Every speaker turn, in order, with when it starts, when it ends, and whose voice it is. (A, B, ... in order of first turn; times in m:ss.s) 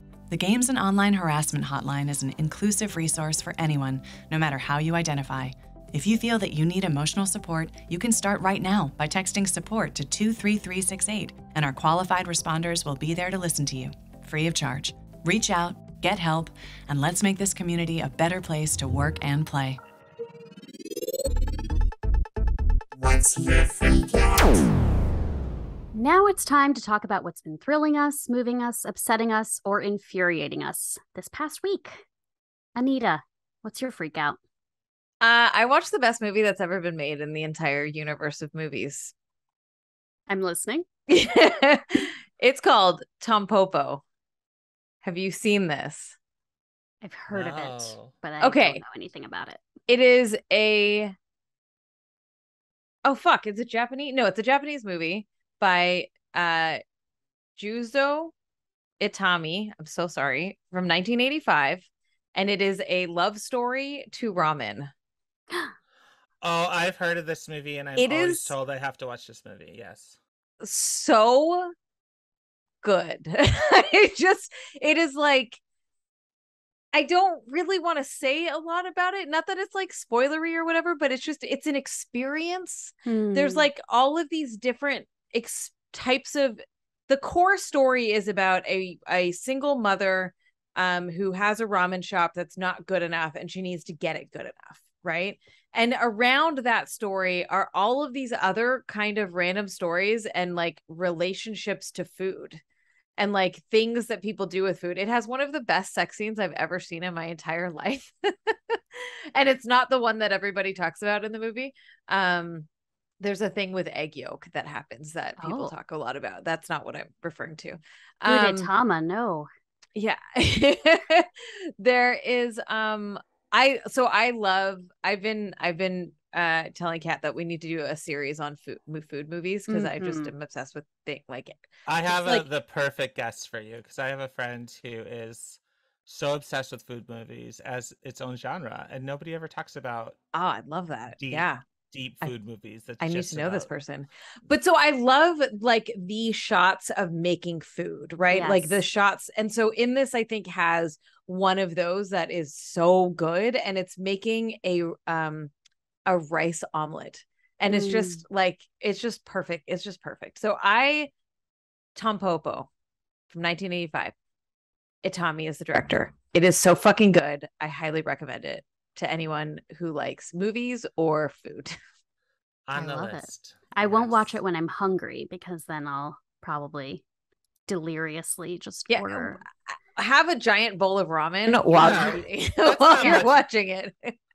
0:00.3-0:19.8 A
0:25.9-0:32.0 B
0:32.8-0:34.4 B
0:35.2-0:39.1 C
0:40.3-0:40.8 B
0:41.1-0:44.0 C
0:45.0-0:46.2 C
0:47.0-0:49.6 B
0:47.3-0:48.1 D
0:48.4-0:48.8 C
0:49.9-0:51.1 C
0:53.0-0:56.8 C
0:57.6-0:58.3 C
0:59.0-1:04.9 C
1:06.4-1:10.2 D
1:08.0-1:08.5 C
1:10.6-1:11.7 C
1:12.8-1:15.6 C
1:16.9-1:42.6 C
1:23.1-1:23.7 B
1:43.2-1:52.7 C
1:53.2-1:58.7 C
1:55.4-1:55.7 B
1:58.3-1:59.5 B
2:00.0-2:12.5 C
2:09.7-2:10.3 B
2:11.9-2:20.2 D
2:20.3-2:21.6 C
2:21.1-2:23.7 D
2:23.0-2:35.5 C
2:28.3-2:28.8 B
2:36.1-2:41.1 C
2:37.7-2:38.2 B
2:42.0-2:42.7 C
2:43.3-2:44.1 C
2:45.0-2:51.8 C
2:52.7-2:54.4 D
2:52.7-2:57.0 B
2:57.7-2:59.4 B
2:58.9-2:59.4 C
3:00.0-3:04.1 C
3:01.7-3:03.4 D